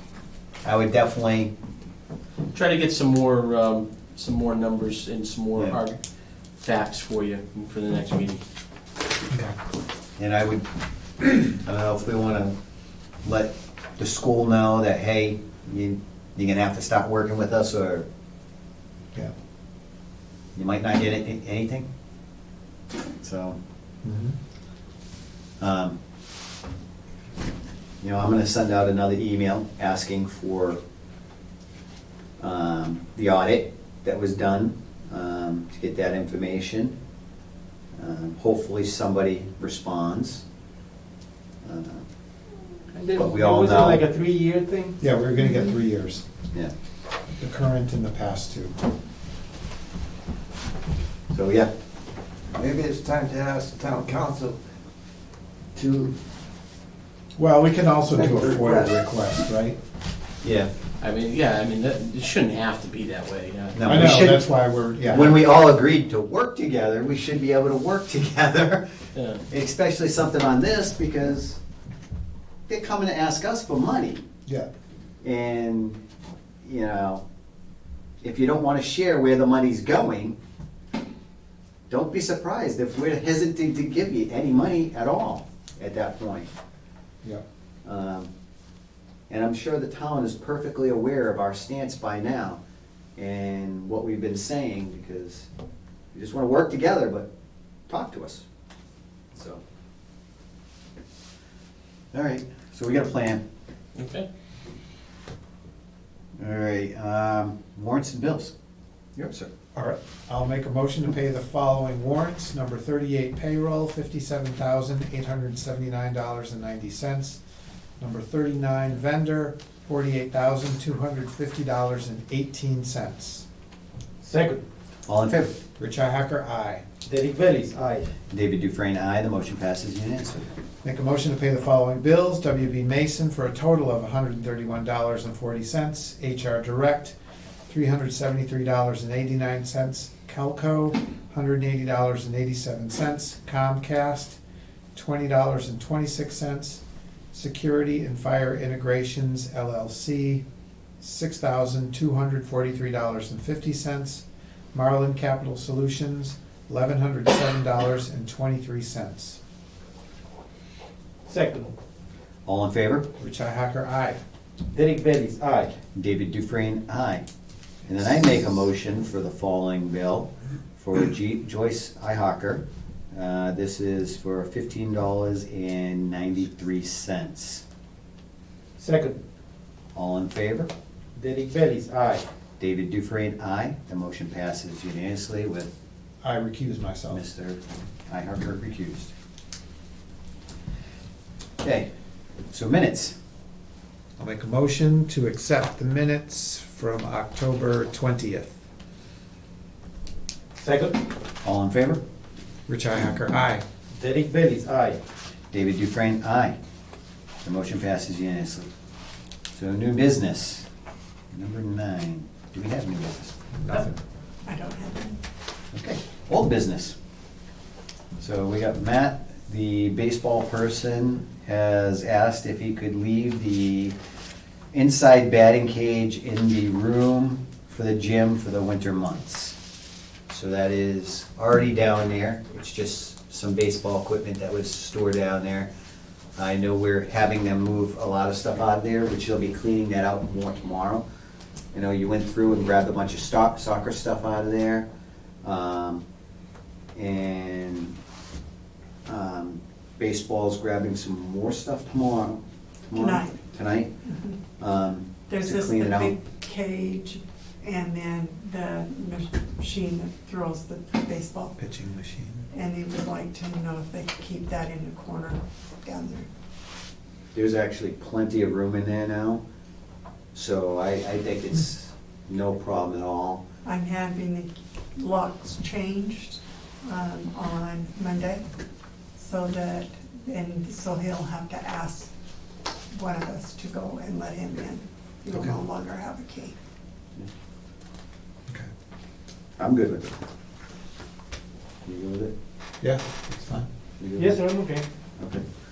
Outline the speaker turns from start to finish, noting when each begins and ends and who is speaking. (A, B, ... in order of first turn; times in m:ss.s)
0:00.6-0:01.5 A
0:02.5-0:06.0 B
0:06.6-0:08.4 B
0:09.3-0:09.6 C
0:10.2-0:10.6 A
0:11.2-0:12.6 A
0:13.2-0:18.1 A
0:20.6-0:21.9 A
0:23.2-0:23.6 A
0:24.0-0:24.4 C
0:25.6-0:26.0 A
0:28.0-0:30.8 A
0:32.4-0:37.0 A
0:38.0-0:40.4 A
0:41.6-0:42.0 A
0:42.9-0:45.0 D
0:43.2-0:44.0 A
0:45.0-0:46.2 C
0:47.4-0:48.8 C
0:51.3-0:51.7 A
0:52.5-0:54.6 E
0:55.8-0:56.1 E
0:57.4-0:59.8 C
1:00.4-1:00.7 A
1:01.0-1:03.8 B
1:03.8-1:04.5 A
1:03.8-1:05.4 C
1:05.1-1:08.8 A
1:09.2-1:09.4 B
1:09.5-1:11.6 A
1:12.7-1:14.2 A
1:15.2-1:16.0 A
1:16.6-1:17.2 A
1:18.2-1:20.4 A
1:21.9-1:26.5 A
1:27.8-1:28.3 A
1:29.3-1:32.6 A
1:33.2-1:35.5 A
1:36.1-1:37.3 A
1:37.9-1:38.4 A
1:39.3-1:39.6 A
1:42.1-1:43.4 A
1:44.0-1:44.3 B
1:46.4-1:48.5 A
1:49.2-1:49.5 A
1:49.8-1:57.4 C
1:58.0-2:03.4 C
2:04.2-2:04.6 D
2:05.1-2:05.5 A
2:05.8-2:06.8 C
2:07.1-2:08.1 D
2:08.3-2:10.5 A
2:10.8-2:17.2 C
2:17.7-2:24.4 C
2:25.0-2:26.8 C
2:27.3-2:30.4 C
2:31.0-2:39.4 C
2:41.3-2:41.7 D
2:42.5-2:43.1 A
2:43.2-2:44.2 C
2:44.7-2:45.8 D
2:46.0-2:47.2 A
2:47.9-2:57.6 A
2:58.8-2:59.2 D
3:00.0-3:00.7 A
3:01.2-3:02.2 D
3:02.6-3:05.7 A
3:06.2-3:07.2 C
3:07.1-3:09.1 A
3:11.6-3:11.9 A
3:12.5-3:13.2 A
3:14.2-3:18.6 C
3:20.6-3:21.0 D
3:21.4-3:22.0 A
3:22.7-3:23.6 C
3:23.9-3:25.0 D
3:25.5-3:26.6 A
3:27.4-3:28.7 A
3:29.6-3:30.7 A
3:31.3-3:33.4 A
3:33.6-3:34.0 C
3:34.4-3:35.2 F
3:35.7-3:37.0 A
3:38.2-3:43.9 A
3:44.7-3:49.6 A
3:50.3-3:55.7 A
3:56.4-4:01.0 A
4:01.7-4:04.9 A
4:05.4-4:06.0 A
4:07.0-4:08.0 A
4:09.1-4:13.9 A
4:12.9-4:13.4 F
4:14.0-4:14.4 F
4:14.6-4:16.2 A
4:15.3-4:21.6 F
4:21.6-4:22.5 C
4:22.5-4:26.3 F
4:27.4-4:29.4 A
4:30.3-4:33.4 A
4:33.6-4:38.5 F
4:39.2-4:42.1 F
4:42.9-4:46.6 F
4:49.6-4:50.1 A
4:51.8-4:52.3 A
4:52.8-4:53.7 C
4:54.0-4:54.4 A
4:54.2-4:54.8 D
4:55.2-4:55.4 A